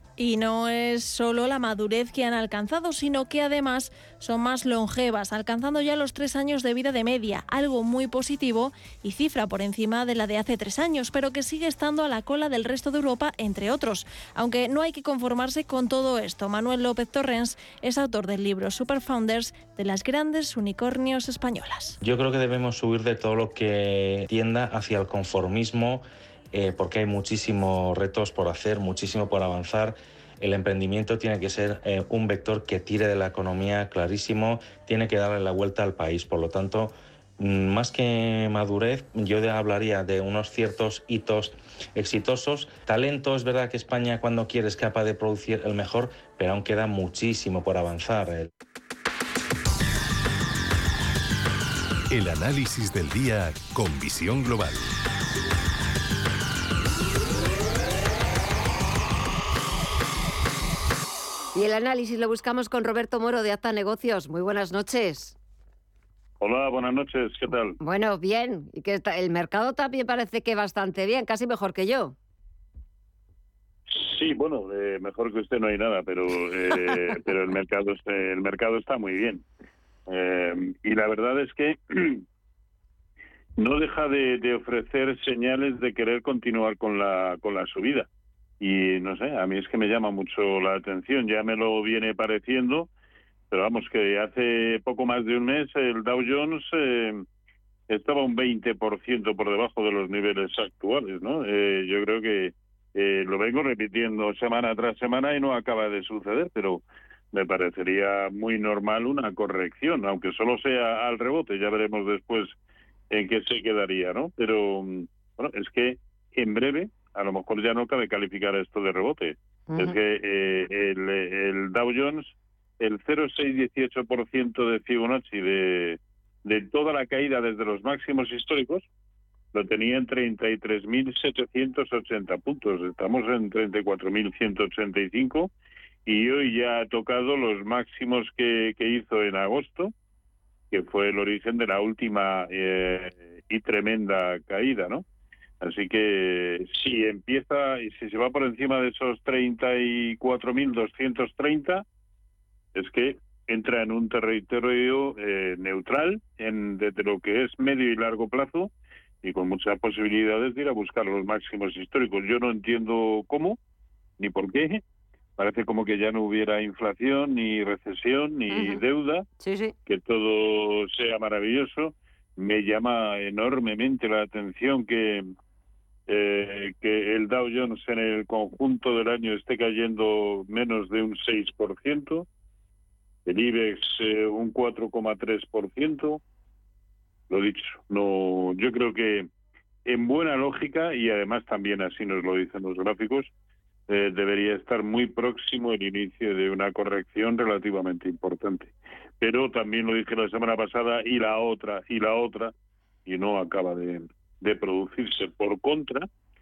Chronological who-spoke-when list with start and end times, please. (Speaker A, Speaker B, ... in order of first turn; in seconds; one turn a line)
Speaker A: 0.2-21.9
Speaker B: 22.0-48.5
Speaker C: 52.1-54.7
Speaker D: 61.5-65.3
Speaker E: 66.4-67.8
Speaker D: 67.8-72.1
Speaker E: 73.9-79.4
Speaker E: 80.1-82.2
Speaker E: 83.6-88.1
Speaker E: 88.6-92.9
Speaker E: 93.5-97.2
Speaker E: 97.9-112.5
Speaker E: 113.1-128.8
Speaker D: 119.7-120.0
Speaker E: 129.5-135.5
Speaker E: 136.1-139.9
Speaker E: 140.7-145.0
Speaker E: 145.6-151.8
Speaker E: 152.7-158.7
Speaker E: 159.2-163.6
Speaker E: 164.2-164.8
Speaker E: 165.4-169.2
Speaker D: 168.5-168.8
Speaker D: 169.4-169.7
Speaker E: 169.8-175.3
Speaker E: 176.1-182.2
Speaker E: 183.2-186.2
Speaker E: 187.3-189.3
Speaker E: 189.8-193.3
Speaker E: 193.9-202.5
Speaker E: 203.1-206.1